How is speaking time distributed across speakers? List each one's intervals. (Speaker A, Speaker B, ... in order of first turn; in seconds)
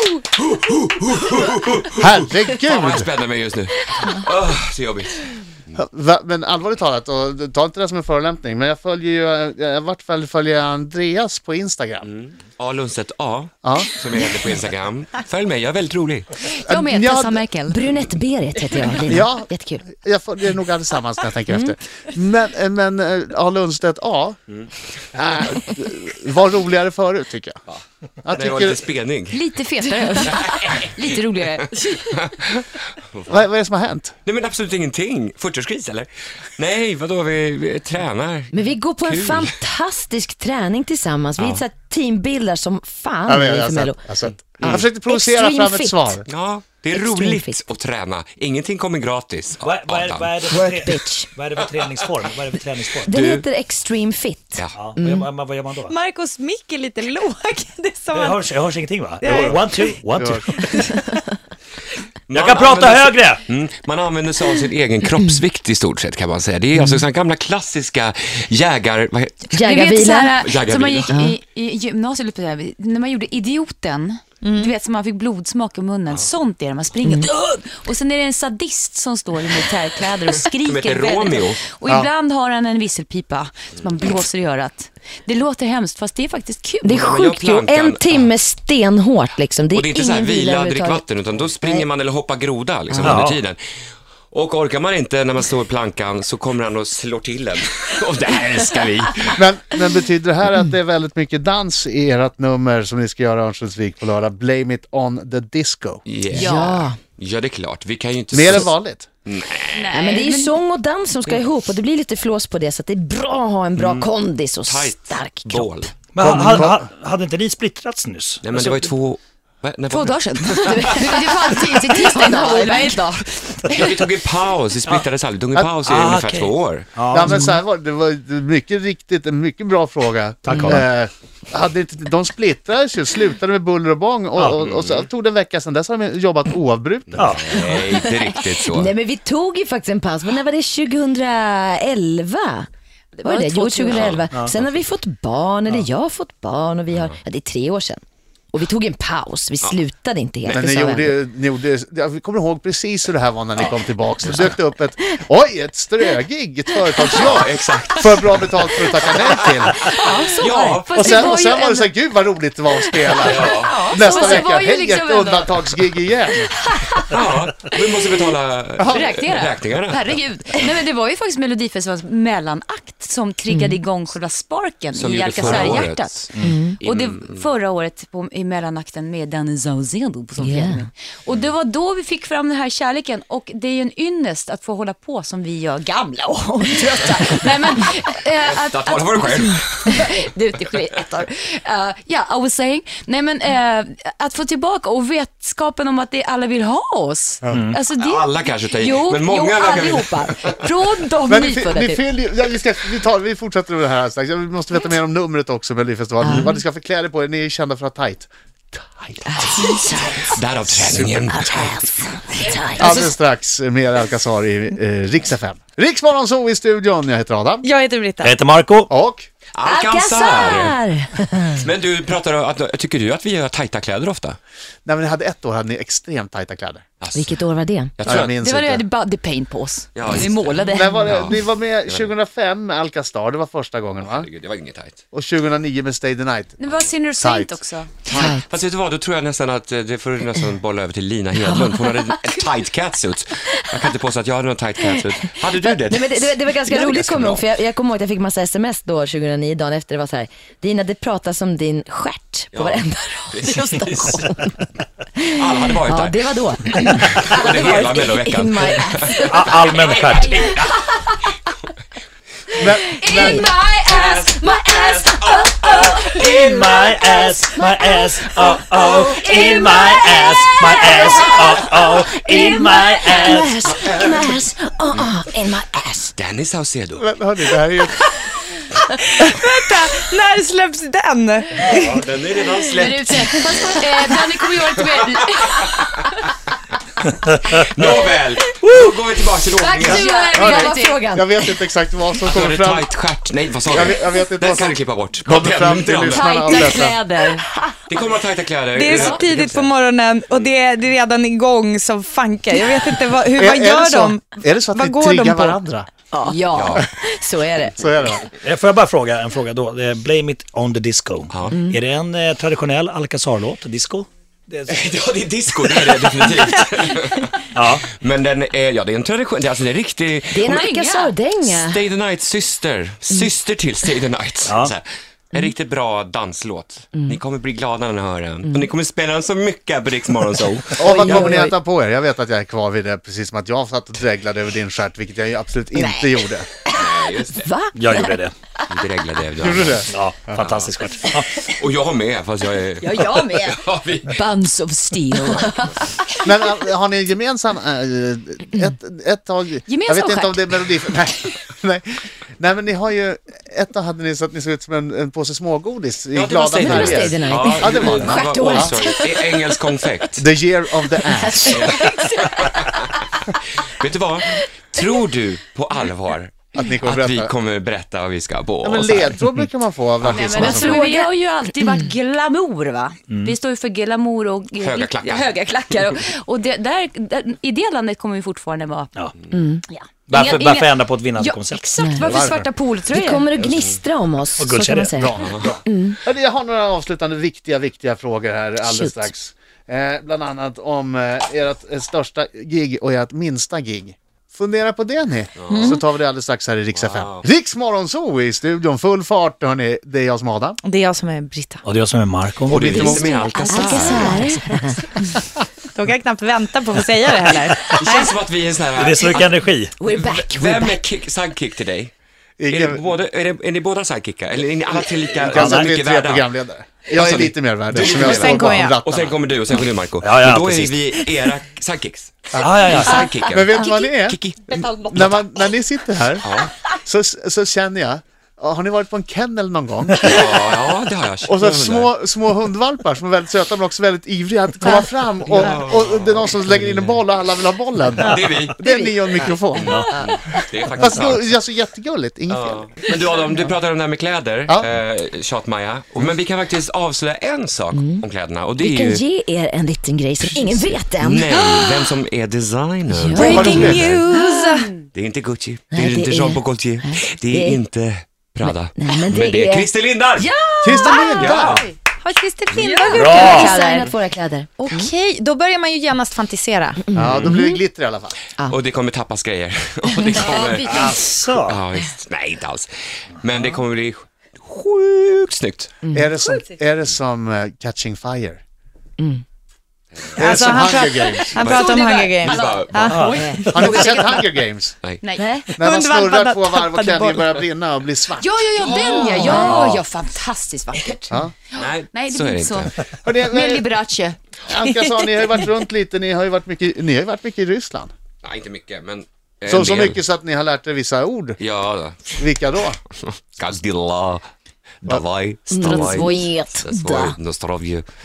Speaker A: 0.3-5.7, 12.0-16.3, 27.7-29.5, 30.2-30.9, 31.9-33.4, 34.2-39.5, 41.4-41.6, 44.6-44.8, 46.3-50.5, 51.6-52.2, 53.0-53.5, 62.3-69.5, 70.4-71.2, 80.6-81.6, 86.9-88.3, 89.7-93.6, 94.3-99.4, 106.0-110.0, 113.8-114.1, 114.6-115.9, 118.4-121.2, 123.7-126.9, 134.6-135.1, 137.1-138.9, 143.9-144.9, 146.9-147.2, 150.4-150.7, 154.3-154.6, 157.1-161.1, 163.2-164.1, 167.1-170.0, 174.9-176.2, 176.8-177.4, 188.4-190.2, 197.9-200.6, 209.6-211.8, 219.5-220.8, 221.5-224.4, 227.0-227.4, 227.9-228.3, 229.9-232.1, 234.0-235.0, 236.6-236.9, 238.0-247.4, 252.5-254.3, 255.2-256.2, 257.1-260.6, 263.9-266.4, 273.7-274.4, 276.1-277.1, 281.6-285.9, 287.5-290.0, 292.2-296.4, 297.9-299.7, 306.5-306.9, 311.3-311.7, 314.7-320.7, 321.4-331.4, 336.7-337.5, 338.7-340.7, 341.4-344.2, 345.2-345.5, 356.1-360.2, 361.4-369.2, 370.0-370.5, 374.6-375.3, 383.4-383.8, 385.1-385.5, 395.4-395.8, 396.7-397.3, 402.5-404.2, 407.6-409.3, 409.9-411.9, 412.5-416.3, 416.9-425.2, 426.2-426.5, 430.0-431.9, 435.3-436.3, 438.0-438.6, 439.5-441.3, 442.3-449.0, 450.2-454.1, 454.9-460.3, 461.2-461.7, 462.6-462.8, 467.1-467.4, 468.5-472.7, 473.2-475.8, 479.9-480.7, 481.4-483.1, 488.5-489.8, 491.5-492.7, 498.2-500.0, 501.4-502.2, 503.0-504.2, 504.8-507.9
Speaker B: 1.9-3.1, 5.7-12.1, 13.6-13.9, 16.6-17.4, 19.1-24.4, 25.1-27.6, 28.2-28.8, 33.3-34.1, 43.2-46.3, 59.3-59.5, 60.2-60.5, 92.9-93.2, 99.3-106.0, 108.3-109.1, 116.2-116.9, 127.1-137.7, 150.5-159.8, 160.9-166.4, 168.8-169.0, 201.3-209.8, 210.7-211.3, 212.8-217.6, 218.9-219.3, 224.8-226.8, 228.1-228.8, 230.7-234.3, 235.1-236.6, 237.2-237.6, 262.6-263.4, 277.0-278.0, 290.3-292.9, 293.7-297.0, 303.3-305.9, 307.7-308.2, 330.8-336.5, 339.4-340.4, 346.2-358.8, 360.2-361.7, 366.5-367.3, 368.6-370.8, 382.0-382.5, 384.9-400.6, 402.5-403.1, 412.4-412.8, 414.8-419.2, 422.3-430.6, 431.2-439.9, 440.8-442.9, 453.1-453.9, 460.6-461.6, 466.9-468.1, 475.9-478.4, 480.2-481.5, 483.5-484.8, 485.6-488.4, 493.0-493.7, 494.4-497.9, 499.5-501.4, 502.1-502.8
Speaker C: 16.5-17.8, 29.3-32.1, 69.6-87.0, 106.3-106.8, 109.7-110.5, 119.9-123.9, 143.2-144.2, 159.8-161.9, 163.1-165.7, 166.5-167.1, 168.9-202.0, 228.2-231.2, 236.6-237.9, 263.0-266.0, 269.1-270.3, 282.6-286.1, 289.6-291.1, 296.4-297.4, 298.9-299.2, 306.2-306.8, 320.4-321.1, 342.9-343.4, 344.1-345.5, 349.6-350.7, 370.0-378.9, 379.7-383.2, 403.5-404.1, 454.2-454.6, 460.2-461.7, 462.5-463.6, 470.1-471.0, 481.2-484.2, 485.0-485.5, 488.2-494.2, 505.6-506.6
Speaker D: 17.7-19.8, 21.5-21.7, 38.5-46.2, 46.9-47.6, 50.5-51.3, 53.0-55.3, 66.7-67.0, 69.5-70.4, 71.1-71.3, 77.0-77.3, 86.8-91.0, 91.6-91.8, 106.3-107.0, 109.9-115.9, 120.7-123.1, 127.3-127.6, 138.2-142.7, 143.2-148.0, 148.5-151.2, 173.5-173.8, 176.4-176.8, 180.4-180.8, 206.2-206.6, 209.3-210.4, 211.3-213.1, 219.6-221.6, 227.1-227.9, 238.1-238.4, 241.3-242.4, 243.5-243.8, 245.6-254.6, 255.5-259.6, 260.3-261.3, 262.7-263.6, 264.2-276.1, 289.6-291.6, 296.1-297.4, 306.1-307.9, 320.3-321.8, 330.8-331.5, 335.7-338.1, 342.9-343.5, 345.1-346.1, 356.5-359.4, 361.1-362.7, 370.4-371.1, 379.3-379.6, 381.8-382.2, 382.9-386.0, 388.6-389.1, 402.8-404.9, 409.8-410.8, 438.6-439.2, 447.7-448.0, 448.6-451.4, 452.9-453.4, 455.7-457.6, 458.4-459.7, 462.9-464.8, 466.9-467.4, 475.8-476.1, 505.5-507.1
Speaker E: 49.6-53.1, 54.7-55.9, 58.1-60.7, 62.3-63.4, 93.0-93.4, 116.1-118.9, 125.8-127.5, 130.4-130.8, 137.2-137.9, 144.3-144.6, 175.5-175.8, 197.5-197.8, 218.2-218.9, 259.2-260.7, 266.0-273.9, 308.4-314.8, 317.5-317.9, 324.4-324.7, 337.7-338.3, 339.9-341.5, 373.1-373.3, 380.1-382.4, 384.4-385.1, 401.6-403.0, 408.7-409.8, 415.3-415.7, 420.0-420.9, 422.4-423.1, 462.9-463.6, 470.6-471.6, 473.3-473.6, 482.9-483.7, 489.2-489.8
Speaker F: 55.9-58.5, 59.2-59.9, 60.7-61.2, 74.4-74.7, 217.6-218.3, 278.9-281.9, 298.7-305.6, 395.5-395.8, 400.6-401.6, 405.7-408.2, 417.9-418.8, 453.1-454.7, 460.7-463.9, 464.6-466.8, 480.1-483.7, 485.6-487.4